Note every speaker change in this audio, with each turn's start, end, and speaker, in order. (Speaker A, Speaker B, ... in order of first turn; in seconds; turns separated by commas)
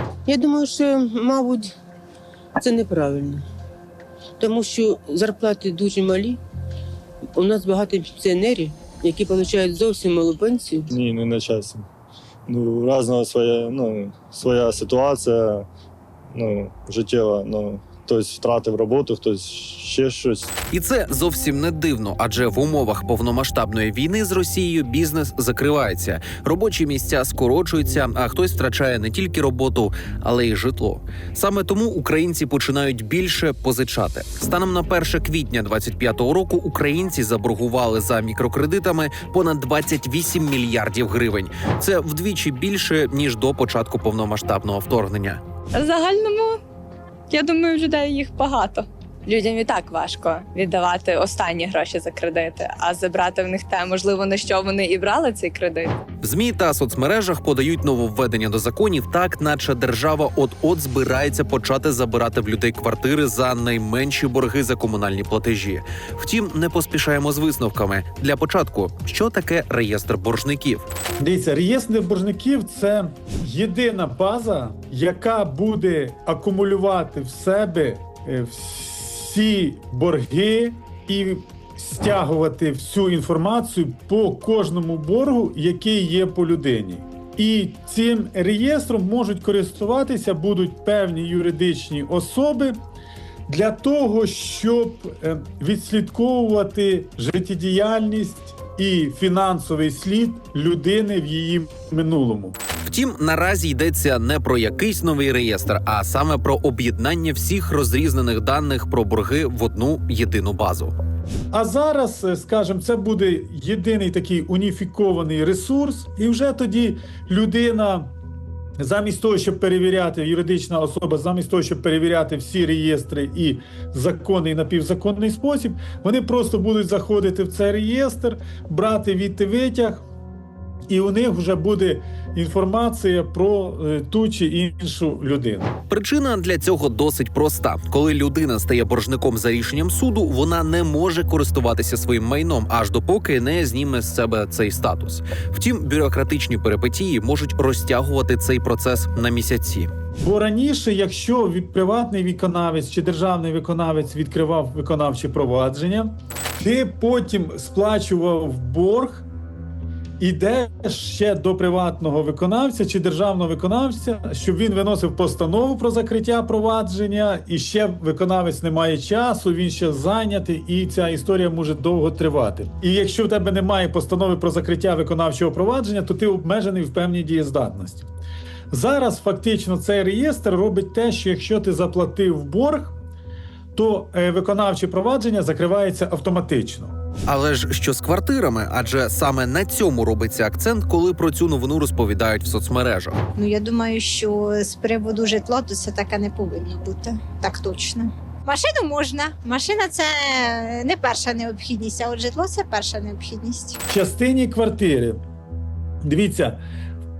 Speaker A: 0.2-1.7, Speaker A: 2.6-3.4, Speaker A: 4.4-6.4, Speaker A: 7.3-10.9, Speaker B: 10.9-11.8, Speaker B: 12.5-15.7, Speaker B: 16.3-20.5, Speaker C: 20.7-45.4, Speaker D: 45.7-46.6, Speaker D: 47.3-55.9, Speaker C: 56.2-70.8, Speaker E: 71.2-92.8, Speaker E: 93.5-102.5, Speaker C: 102.8-110.9, Speaker E: 111.5-118.1, Speaker E: 118.8-130.0, Speaker E: 130.9-135.7, Speaker C: 135.9-149.9, Speaker E: 150.2-159.2, Speaker E: 160.2-178.1, Speaker E: 178.7-182.9, Speaker E: 183.7-186.9, Speaker C: 187.3-193.2, Speaker F: 193.3-203.8, Speaker E: 203.9-205.2, Speaker E: 206.0-206.6